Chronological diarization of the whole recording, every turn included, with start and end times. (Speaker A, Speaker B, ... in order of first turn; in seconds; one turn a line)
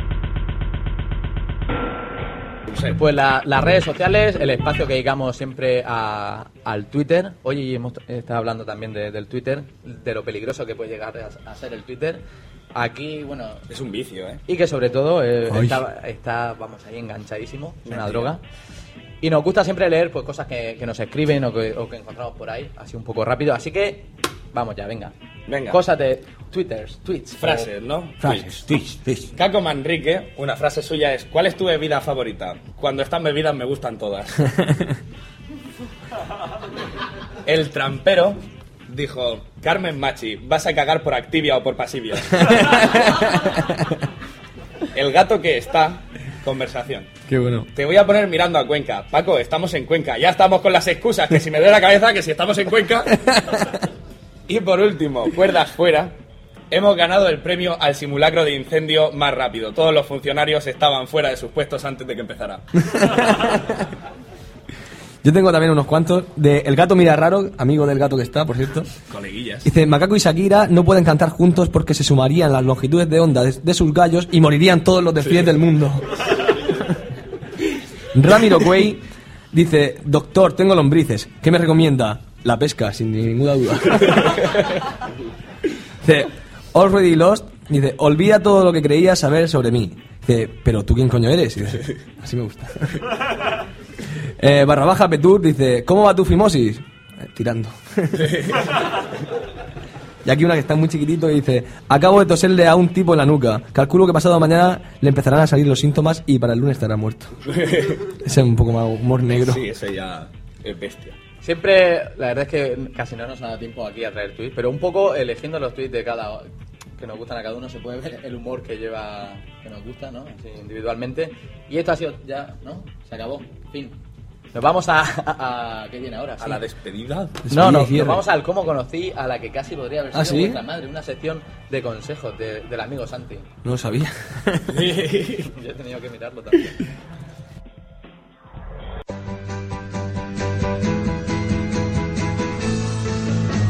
Speaker A: 2.7-3.0
Speaker B: 2.9-12.2
Speaker B: 12.7-13.6
Speaker A: 13.7-14.4
Speaker B: 14.5-18.4
Speaker C: 15.5-15.8
Speaker A: 17.9-18.3
Speaker B: 19.2-25.1
Speaker A: 25.5-25.8
Speaker B: 25.7-27.7
Speaker A: 27.4-28.6
Speaker C: 28.2-29.3
Speaker A: 29.3-34.5
Speaker A: 37.5-43.4
Speaker C: 42.5-43.7
Speaker A: 44.9-47.1
Speaker C: 47.3-47.7
Speaker A: 47.7-53.4
Speaker A: 54.5-56.1
Speaker A: 56.7-62.7
Speaker C: 62.8-63.9
Speaker C: 65.2-68.9
Speaker A: 69.1-69.7
Speaker C: 69.6-77.0
Speaker C: 78.1-84.7
Speaker C: 86.0-93.1
Speaker C: 94.4-98.3
Speaker A: 98.2-98.6
Speaker C: 100.2-107.4
Speaker A: 107.5-108.1
Speaker C: 108.1-109.7
Speaker A: 109.3-111.2
Speaker B: 111.4-124.0
Speaker B: 124.5-126.6
Speaker A: 126.4-127.4
Speaker C: 127.4-128.2
Speaker B: 127.5-133.5
Speaker C: 130.1-130.6
Speaker C: 133.6-134.8
Speaker A: 134.7-135.5
Speaker B: 135.3-136.8